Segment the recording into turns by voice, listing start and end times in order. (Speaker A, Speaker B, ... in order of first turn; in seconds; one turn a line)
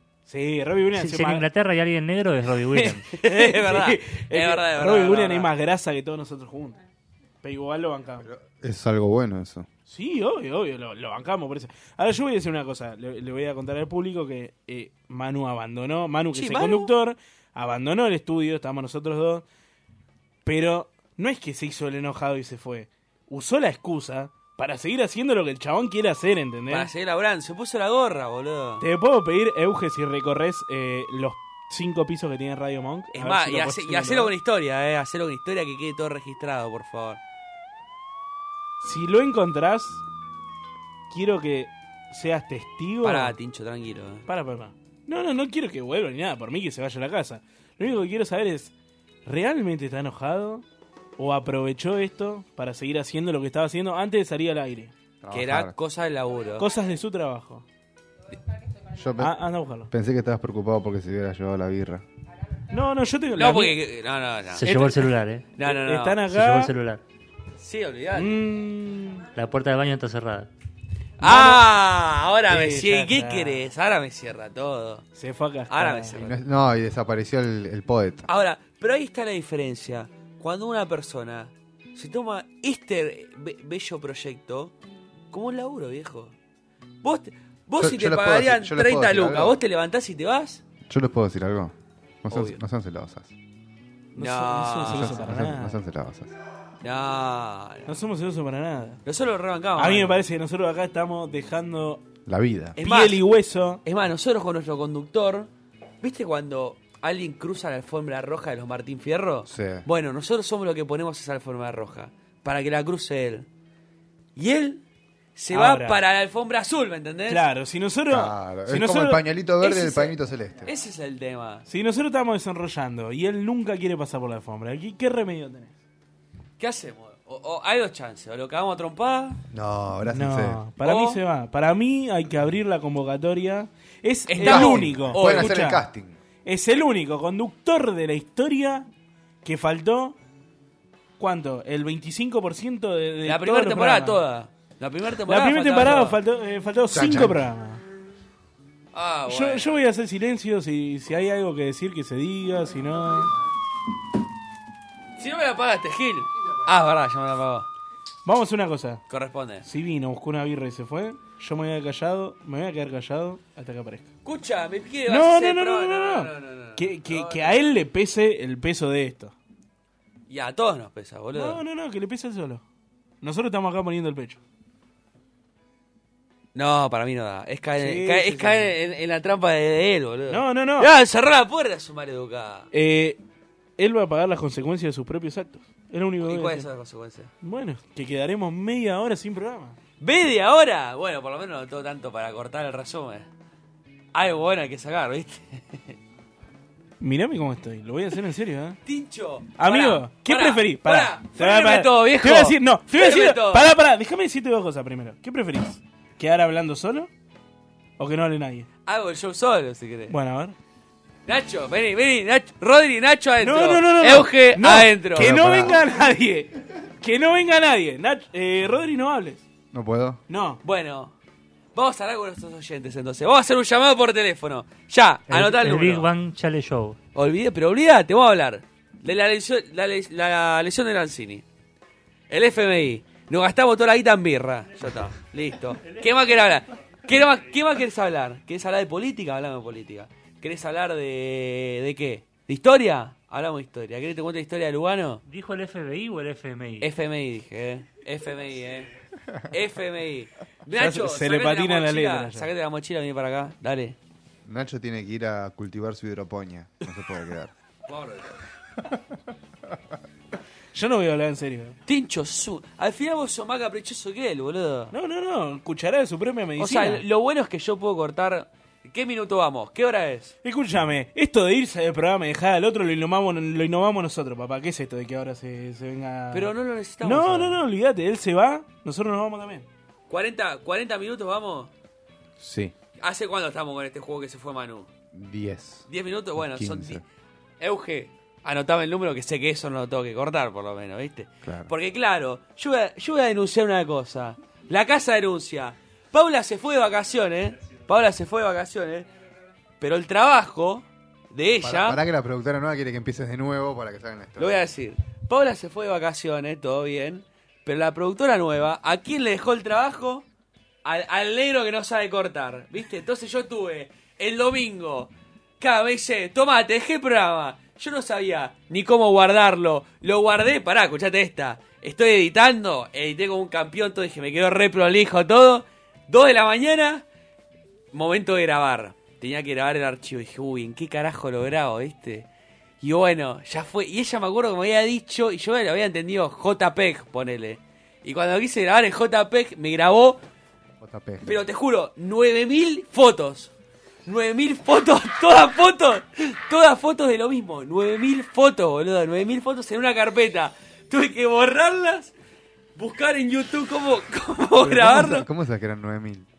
Speaker A: 0.3-1.5
Speaker B: 0.9-3.1
Speaker C: 2.7-5.5
Speaker A: 3.3-6.8
Speaker A: 7.4-8.3
Speaker D: 8.2-9.7
Speaker A: 9.9-19.4
Speaker C: 16.3-16.9
Speaker A: 20.4-26.9
Speaker C: 26.7-28.9
Speaker A: 28.8-34.3
Speaker C: 33.1-37.2
Speaker A: 38.8-40.0
Speaker A: 41.1-43.4
Speaker C: 43.0-44.3
Speaker A: 44.3-48.7
Speaker A: 49.2-50.6
Speaker A: 51.2-54.9
Speaker D: 55.2-55.7
Speaker C: 55.3-56.7
Speaker A: 56.6-57.6
Speaker D: 59.0-62.0
Speaker A: 59.2-59.9
Speaker A: 62.7-63.8
Speaker C: 63.4-66.2
Speaker B: 64.5-65.5
Speaker A: 65.6-66.7
Speaker B: 66.2-67.0
Speaker C: 67.6-68.4
Speaker A: 68.1-69.3
Speaker B: 69.3-70.5
Speaker C: 71.2-75.1
Speaker A: 71.2-71.7
Speaker A: 72.5-73.7
Speaker A: 75.2-76.3
Speaker C: 75.7-76.3
Speaker D: 76.1-78.3
Speaker C: 78.3-84.7
Speaker C: 85.3-86.3
Speaker C: 87.0-90.6
Speaker D: 87.8-89.6
Speaker D: 90.9-91.7
Speaker D: 92.2-93.3
Speaker C: 92.3-92.6
Speaker A: 94.2-95.8
Speaker C: 94.2-95.2
Speaker D: 94.9-96.3
Speaker C: 96.8-97.9
Speaker A: 97.9-99.0
Speaker C: 99.0-100.2
Speaker A: 99.8-102.1
Speaker D: 102.3-102.8
Speaker C: 102.8-103.2
Speaker A: 102.8-103.8
Speaker C: 103.8-105.5
Speaker C: 106.0-113.5
Speaker D: 109.5-109.8
Speaker C: 114.4-114.8
Speaker C: 115.4-117.4
Speaker A: 115.5-116.0
Speaker A: 117.3-119.2
Speaker D: 118.1-120.8
Speaker C: 119.6-120.1
Speaker C: 120.7-121.7
Speaker A: 121.7-125.7
Speaker C: 126.6-129.4
Speaker D: 129.5-130.7
Speaker A: 130.1-135.8
Speaker C: 130.8-131.2
Speaker C: 134.3-135.6
Speaker D: 134.4-136.2
Speaker A: 136.4-138.9
Speaker A: 139.4-140.2
Speaker A: 141.2-144.2
Speaker C: 143.2-146.2
Speaker A: 145.3-147.8
Speaker D: 146.9-147.4
Speaker C: 148.9-149.8
Speaker A: 149.3-153.3
Speaker C: 155.2-157.7
Speaker A: 158.2-159.0
Speaker C: 159.1-159.7
Speaker A: 159.6-164.1
Speaker C: 164.2-167.6
Speaker A: 165.1-169.3
Speaker C: 170.3-171.6
Speaker A: 171.3-172.6
Speaker A: 173.2-174.4
Speaker C: 176.6-182.7
Speaker A: 177.8-178.7
Speaker A: 180.3-180.9
Speaker A: 182.7-183.2
Speaker A: 183.8-186.7
Speaker C: 186.2-187.3
Speaker A: 187.4-189.8
Speaker C: 190.0-193.3
Speaker C: 194.1-196.0
Speaker A: 197.0-198.8
Speaker C: 198.9-203.7
Speaker A: 199.6-207.1
Speaker A: 208.0-208.7
Speaker C: 208.9-210.1
Speaker A: 210.1-210.6
Speaker C: 211.3-215.7
Speaker A: 213.4-219.4
Speaker D: 215.2-215.9
Speaker D: 219.7-220.2
Speaker A: 220.3-220.6
Speaker C: 220.6-221.1
Speaker C: 221.7-226.1
Speaker B: 225.3-227.0
Speaker C: 227.2-231.4
Speaker C: 232.3-245.2
Speaker B: 245.3-246.9
Speaker C: 246.8-248.9
Speaker C: 249.5-254.0
Speaker A: 250.7-252.5
Speaker D: 254.5-257.5
Speaker C: 257.9-258.4
Speaker A: 260.7-261.8
Speaker C: 261.9-264.9
Speaker A: 264.9-267.0
Speaker C: 266.6-270.4
Speaker A: 270.4-276.5
Speaker C: 276.3-277.6
Speaker A: 277.0-279.7
Speaker C: 280.1-281.7
Speaker D: 282.4-282.7
Speaker C: 283.0-284.9
Speaker D: 285.1-287.0
Speaker C: 285.9-287.0
Speaker C: 287.6-299.1
Speaker D: 291.4-291.7
Speaker C: 299.8-302.0
Speaker D: 301.6-304.7
Speaker C: 304.4-310.3
Speaker C: 310.9-327.1
Speaker C: 327.9-332.3
Speaker C: 332.8-340.2
Speaker D: 340.8-341.4
Speaker C: 341.2-343.5
Speaker C: 344.1-352.1
Speaker C: 352.8-355.3
Speaker D: 354.6-356.3